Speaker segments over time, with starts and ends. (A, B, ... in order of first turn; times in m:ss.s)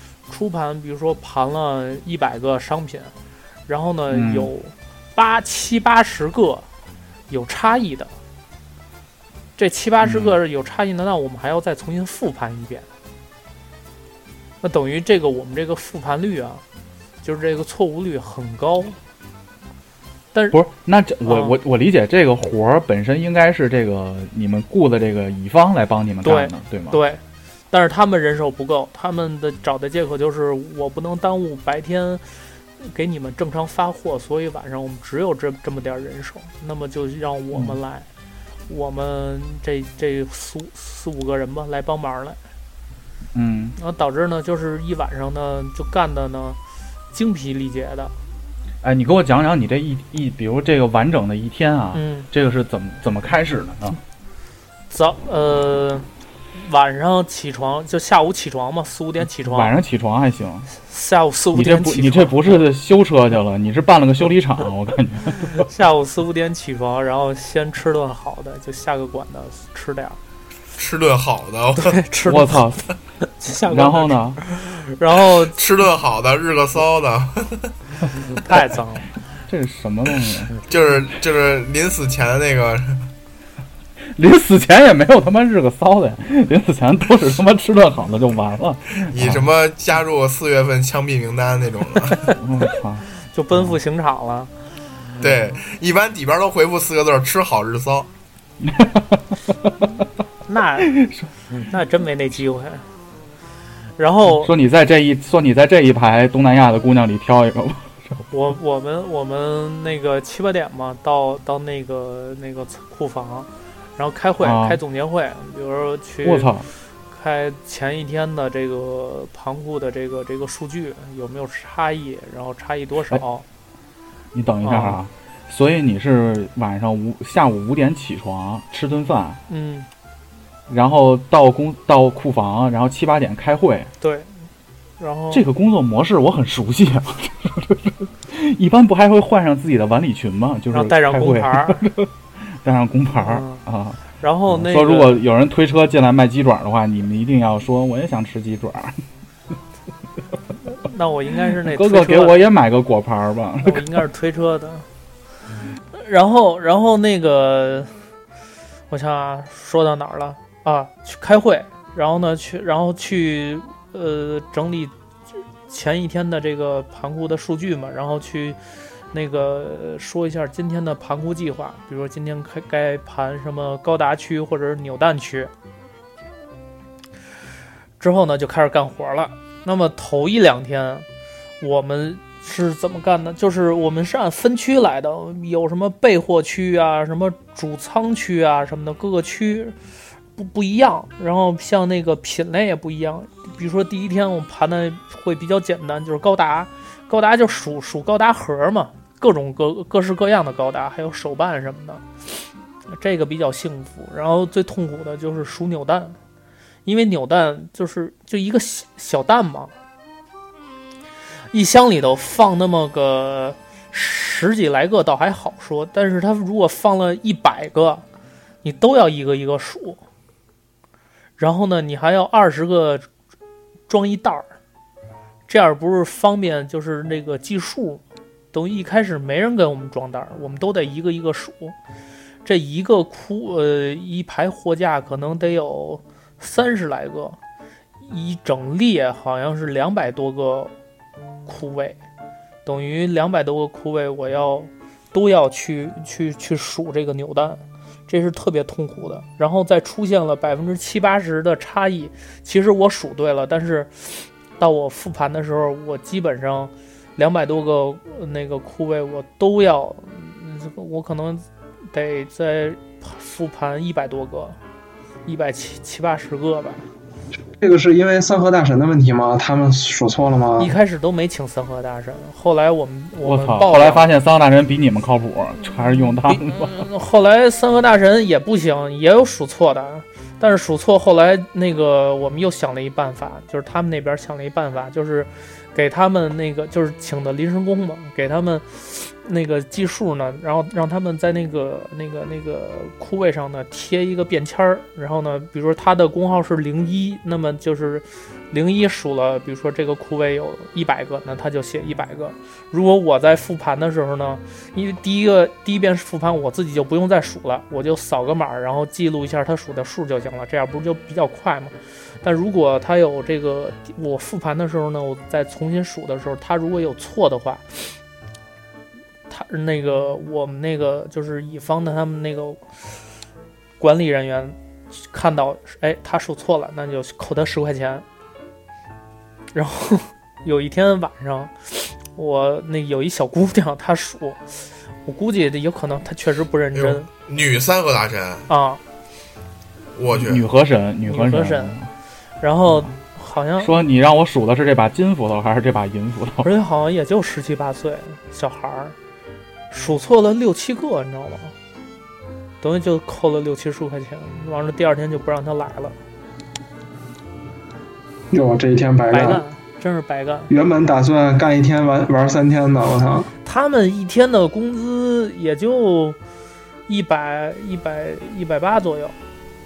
0:00.3-0:03.1 A
0:03.7-0:06.7 A
0:04.1-0:04.5 B
0:07.3-0:08.1 A
0:09.6-0:12.9 A
0:10.0-0:10.4 B
0:14.6-0:16.6 A
0:17.2-0:19.0 A
0:20.5-0:27.0 B
0:21.2-0:21.6 A
0:26.2-0:38.1 A
0:37.5-0:37.8 B
0:38.7-0:42.4 A
0:43.3-0:43.8 B
0:43.8-0:46.6 A
0:47.1-0:48.1 A
0:48.8-0:54.0 B
0:51.9-0:52.3 A
0:54.9-0:59.7 A
0:59.5-1:00.7 B
1:00.8-1:02.4 A
1:01.5-1:05.6 B
1:05.6-1:10.2 A
1:10.8-1:11.9 C
1:11.8-1:12.8 A
1:12.3-1:12.8 B
1:13.4-1:15.6 A
1:13.7-1:14.4 B
1:15.6-1:17.7 C
1:18.4-1:19.1 A
1:19.5-1:20.5 B
1:20.7-1:23.0 C
1:24.2-1:29.4 B
1:29.0-1:32.3 C
1:32.4-1:33.8 B
1:33.3-1:34.5 A
1:35.2-1:38.1 C
1:38.6-1:39.3 B
1:40.5-1:40.9 A
1:41.0-1:41.3 B
1:41.6-1:42.9 A
1:44.0-1:44.5 A
1:44.2-1:48.2 B
1:48.3-1:56.5 A
1:54.4-1:54.8 B
1:56.2-1:56.7 B
1:57.1-2:03.4 A
2:04.3-2:09.4 B
2:04.6-2:05.0 A
2:09.5-2:09.9 A
2:10.7-2:13.9 B
2:14.0-2:14.3 A
2:15.0-2:15.4 A
2:15.3-2:29.0 B
2:20.7-2:21.9 A
2:23.1-2:23.6 A
2:24.2-2:25.2 A
2:30.7-2:32.4 A
2:31.6-2:33.8 B
2:33.6-2:34.9 A
2:35.9-2:37.9 A
2:38.9-2:44.9 A
2:45.7-2:48.6 A
2:49.1-2:55.5 A
2:58.0-3:01.1 A
3:01.6-3:09.8 A
3:10.4-3:26.2 A
3:26.8-3:29.7 A
3:31.5-3:38.0 A
3:38.6-3:40.0 A
3:41.4-3:43.0 A
3:43.9-3:44.5 A
3:45.5-3:51.8 A
3:52.4-3:57.4 A
3:58.0-4:00.7 A
4:01.4-4:02.0 A
4:02.6-4:24.6 A
4:25.2-4:26.8 A
4:27.6-4:30.7 D
4:30.6-4:34.0 A
4:33.2-4:36.7 B
4:36.3-5:17.9 A
5:19.3-5:22.8 A
5:23.8-5:28.0 A
5:29.5-5:37.1 A
5:36.7-5:38.5 C
5:38.5-5:38.8 A
5:39.9-5:40.4 C
5:40.2-5:41.9 B
5:41.0-5:41.7 A
5:42.4-5:43.7 A
5:43.6-5:46.5 B
5:46.4-5:48.9 A
5:49.7-5:51.5 A
5:52.6-5:56.0 A
5:58.3-5:59.4 D
5:59.1-6:00.5 A
6:00.5-6:03.3 D
6:03.4-6:06.2 A
6:06.9-6:09.1 A